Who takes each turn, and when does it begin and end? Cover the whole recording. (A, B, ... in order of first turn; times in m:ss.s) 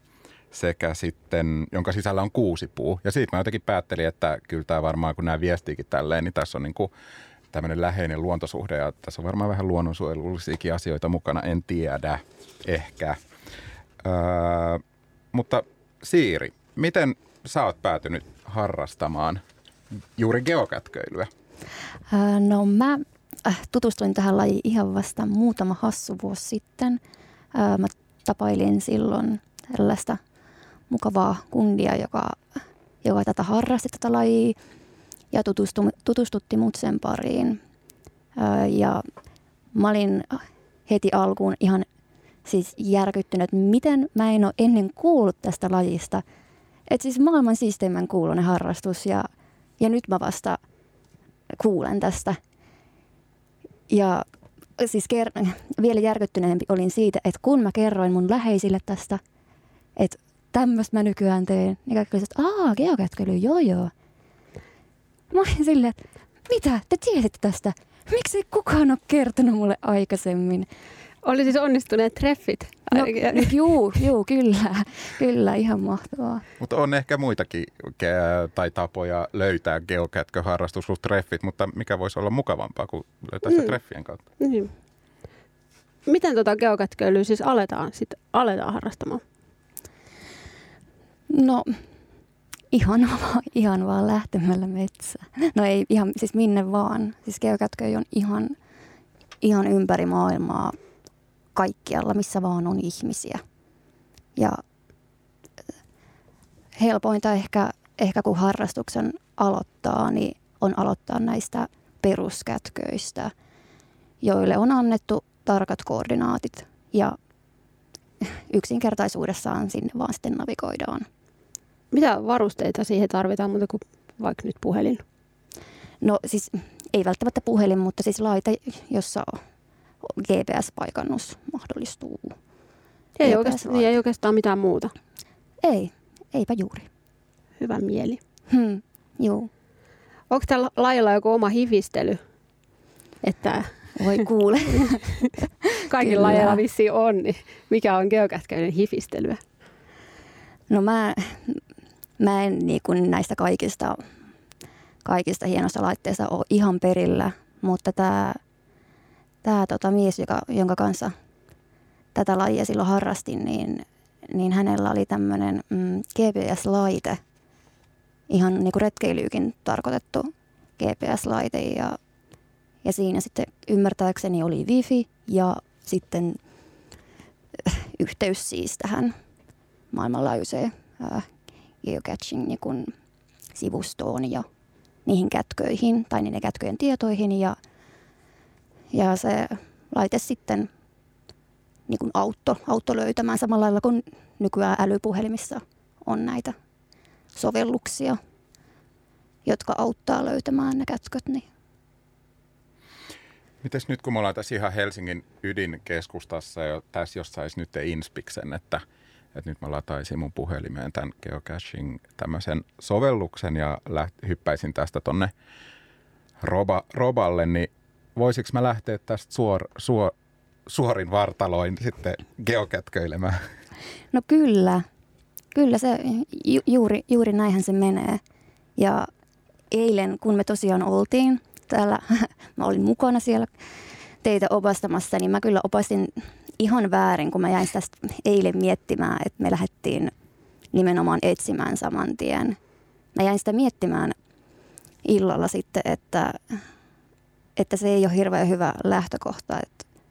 0:00.5-0:06.9 A
0:07.5-0:13.2 A
0:14.0-0:14.8 A
0:15.3-0:19.4 A
0:20.2-0:21.3 A
0:22.1-0:27.0 B
0:27.5-0:30.2 B
0:30.9-0:32.4 B
0:33.0-0:34.6 B
0:35.3-0:37.6 B
0:38.4-0:39.0 B
0:39.7-0:41.9 B
0:42.4-0:46.2 B
0:46.9-0:49.3 B
0:49.8-0:50.6 B
0:51.6-0:52.4 B
0:53.9-0:54.2 B
0:54.8-0:59.2 B
1:00.0-1:03.9 B
1:05.3-1:10.7 B
1:11.2-1:13.6 C
1:12.9-1:16.4 B
1:16.6-1:24.2 A
1:24.4-1:24.7 C
1:26.1-1:29.2 C
1:31.3-1:31.8 B
1:32.7-1:38.6 B
1:39.4-1:40.8 B
1:41.6-1:43.4 B
1:46.8-1:53.3 B
1:54.2-1:57.2 B
1:58.2-2:01.1 B
2:01.9-2:05.0 C
2:06.0-2:09.4 B
2:10.0-2:12.4 B
2:13.2-2:14.9 C
2:13.2-2:13.9 B
2:15.6-2:16.9 B
2:17.6-2:18.2 C
2:18.5-2:19.5 B
2:20.3-2:22.2 C
2:23.2-2:23.7 C
2:24.0-2:25.1 B
2:25.9-2:29.4 C
2:26.0-2:26.6 B
2:30.7-2:31.6 B
2:32.2-2:34.0 B
2:35.0-2:38.4 B
2:39.4-2:41.1 B
2:42.2-2:47.2 B
2:48.3-2:52.0 B
2:52.8-2:56.4 B
2:57.6-2:59.1 B
2:59.9-3:01.3 B
3:01.8-3:02.9 B
3:03.6-3:04.5 B
3:05.1-3:07.6 B
3:08.9-3:10.7 B
3:11.9-3:16.6 B
3:17.4-3:18.2 B
3:19.5-3:21.5 B
3:23.6-3:35.3 A
3:36.4-3:40.1 A
3:40.7-3:43.4 A
3:44.1-3:44.9 B
3:45.5-3:48.2 B
3:48.8-3:49.1 B
3:49.7-3:53.5 B
3:54.2-4:00.1 B
4:00.7-4:02.6 B
4:03.2-4:04.1 B
4:05.0-4:06.6 B
4:07.6-4:09.8 B